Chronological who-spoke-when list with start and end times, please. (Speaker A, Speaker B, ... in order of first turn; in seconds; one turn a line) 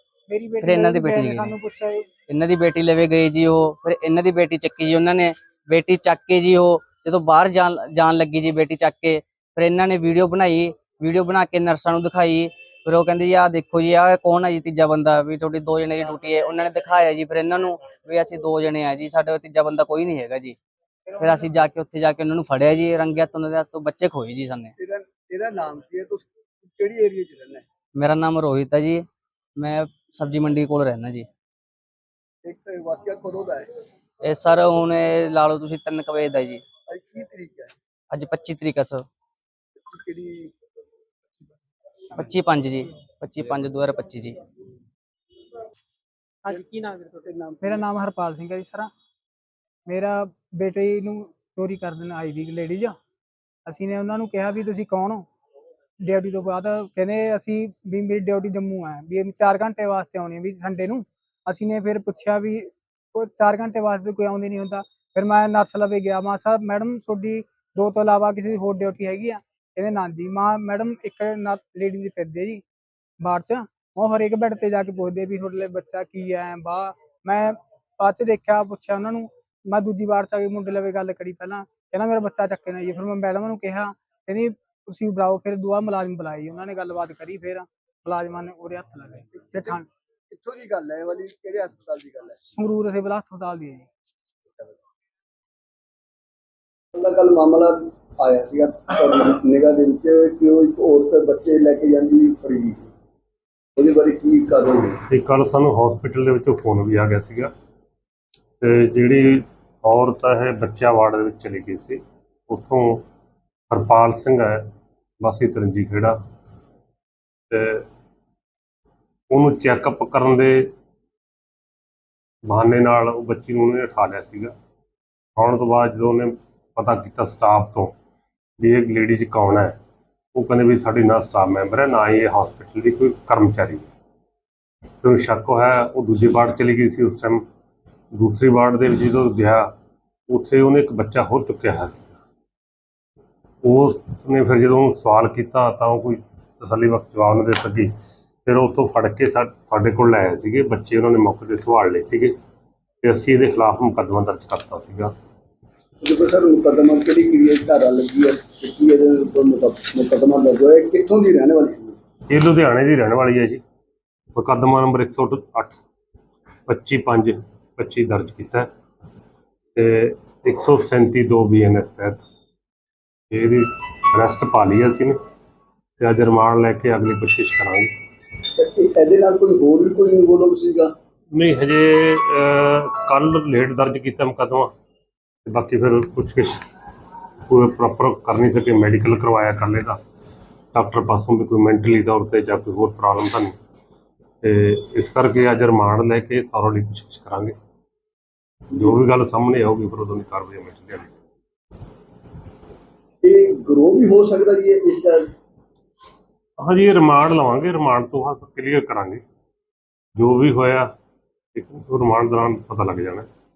Speaker A: 0.3-2.1
Speaker B: 0.6-1.5
Speaker B: 2.3-20.6
Speaker A: 21.1-21.5
Speaker B: 21.2-24.7
Speaker C: 24.8-27.6
Speaker B: 27.9-29.0
Speaker B: 29.6-31.3
Speaker C: 32.4-33.7
Speaker B: 34.2-36.6
Speaker C: 36.9-37.7
Speaker B: 38.1-39.0
Speaker C: 39.8-40.5
Speaker B: 42.1-44.4
Speaker A: 46.4-48.9
Speaker C: 46.5-47.9
Speaker A: 49.9-53.0
Speaker A: 53.6-55.3
Speaker A: 56.0-72.6
Speaker A: 73.2-89.8
Speaker C: 89.3-92.4
Speaker A: 92.5-93.9
Speaker C: 96.9-102.9
Speaker C: 103.8-105.0
Speaker D: 105.0-107.5
Speaker D: 108.6-113.0
Speaker D: 113.7-116.2
Speaker D: 117.5-117.8
Speaker D: 119.3-120.7
Speaker D: 122.5-124.5
Speaker D: 125.3-127.9
Speaker D: 128.6-129.8
Speaker D: 130.3-133.9
Speaker D: 135.0-137.4
Speaker D: 138.1-139.7
Speaker D: 140.3-142.1
Speaker D: 143.6-147.9
Speaker D: 148.4-152.3
Speaker D: 153.0-155.1
Speaker C: 156.0-162.0
Speaker D: 162.3-163.6
Speaker D: 164.3-165.8
Speaker D: 166.7-168.7
Speaker D: 169.8-172.2
Speaker D: 173.3-175.2
Speaker D: 176.0-177.9
Speaker C: 178.5-180.9
Speaker D: 181.3-184.7
Speaker D: 185.4-186.6
Speaker D: 187.5-190.0
Speaker D: 190.7-193.6
Speaker D: 194.4-197.5
Speaker D: 198.7-201.1
Speaker C: 203.2-205.3
Speaker D: 206.6-209.2
Speaker D: 210.1-210.9
Speaker D: 211.5-213.3